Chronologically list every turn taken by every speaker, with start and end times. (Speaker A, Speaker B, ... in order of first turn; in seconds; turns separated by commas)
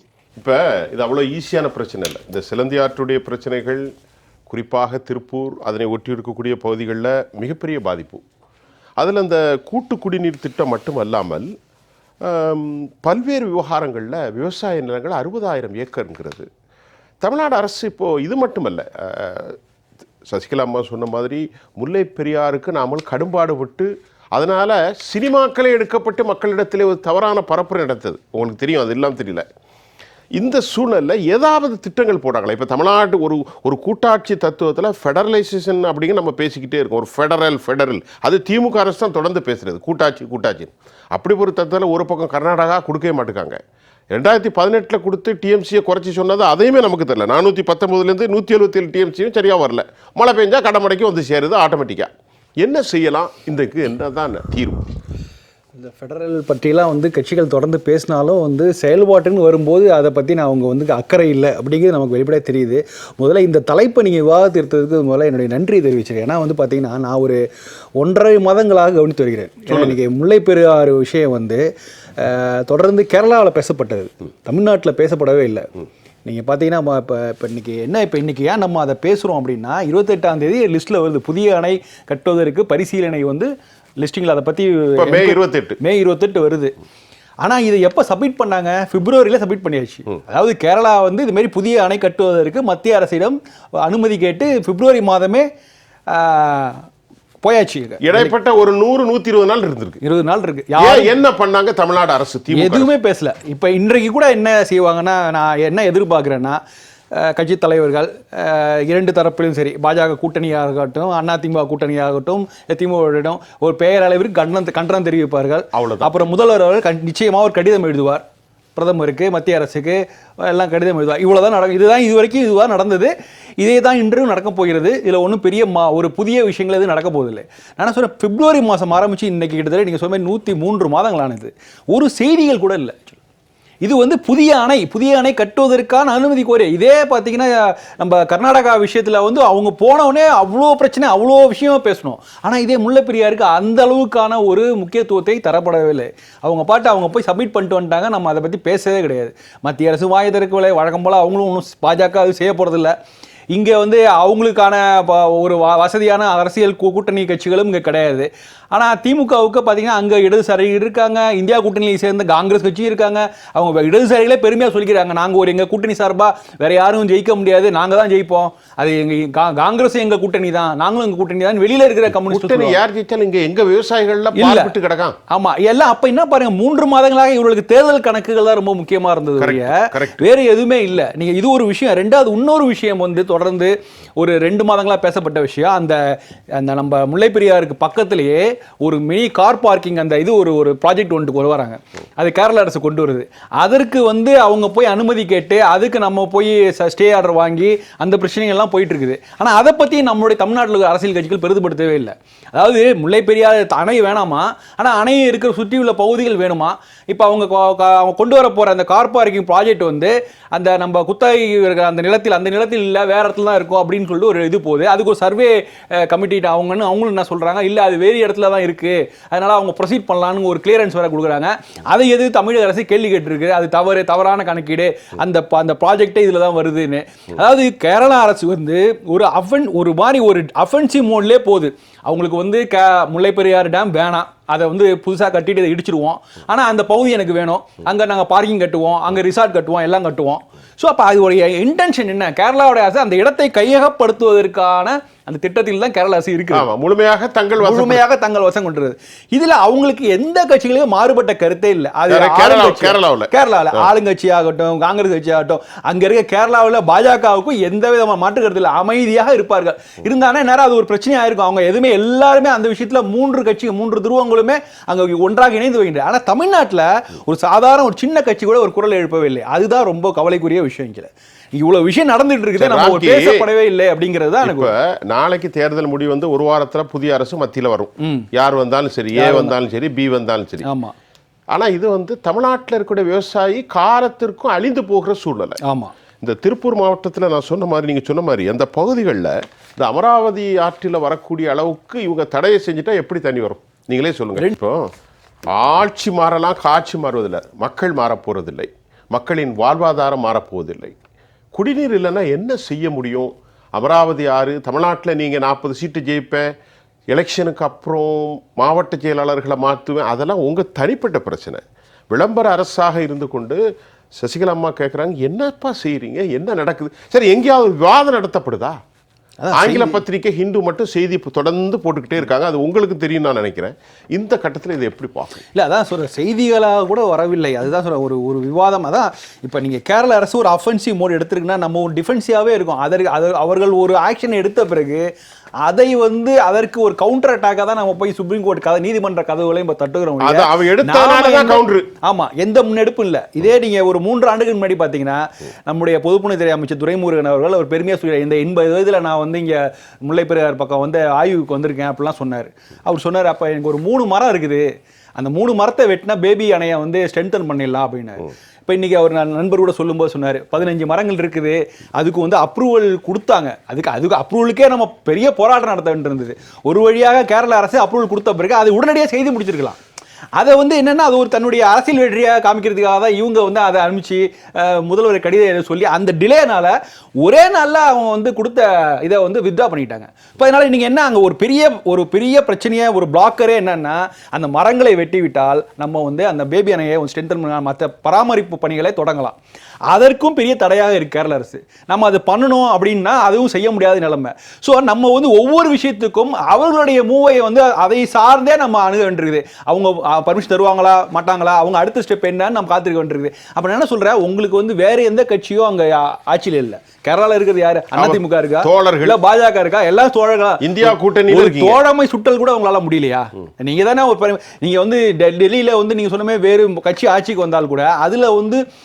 Speaker A: 0.4-3.9, Speaker A: 4.5-8.2, Speaker A: 9.0-11.5, Speaker A: 12.2-16.5, Speaker A: 17.2-19.6, Speaker A: 20.3-29.5, Speaker A: 30.4-43.6, Speaker A: 44.1-54.8, Speaker B: 55.8-67.4, Speaker B: 68.0-71.6, Speaker A: 69.7-70.0, Speaker B: 72.2-75.7, Speaker B: 76.2-86.7, Speaker A: 85.0-85.8, Speaker B: 87.4-95.5, Speaker B: 96.1-96.8, Speaker B: 97.4-98.3, Speaker A: 98.0-100.0, Speaker B: 100.0-101.2, Speaker A: 100.8-102.9, Speaker B: 102.5-106.6, Speaker B: 107.1-118.2, Speaker A: 115.7-116.2, Speaker B: 118.8-133.2, Speaker B: 133.8-152.9, Speaker B: 153.5-172.8, Speaker A: 172.1-175.2, Speaker B: 174.3-174.7, Speaker B: 175.3-246.7, Speaker A: 179.4-180.2, Speaker A: 246.5-248.0, Speaker B: 247.6-274.7, Speaker A: 252.1-253.9, Speaker A: 272.6-273.5, Speaker A: 274.4-280.7, Speaker B: 278.0-278.3, Speaker B: 279.1-279.6, Speaker B: 280.6-280.9, Speaker A: 281.5-285.6, Speaker B: 285.6-285.9, Speaker A: 286.2-294.9, Speaker A: 295.5-300.9, Speaker A: 301.5-306.5, Speaker A: 307.1-313.6, Speaker A: 314.2-318.8, Speaker B: 319.4-320.0, Speaker A: 319.5-325.4, Speaker B: 325.5-335.1, Speaker B: 335.6-354.7, Speaker A: 340.2-341.9, Speaker B: 355.2-369.8, Speaker B: 370.4-389.4, Speaker B: 389.9-418.6, Speaker A: 407.9-409.2, Speaker A: 410.6-411.8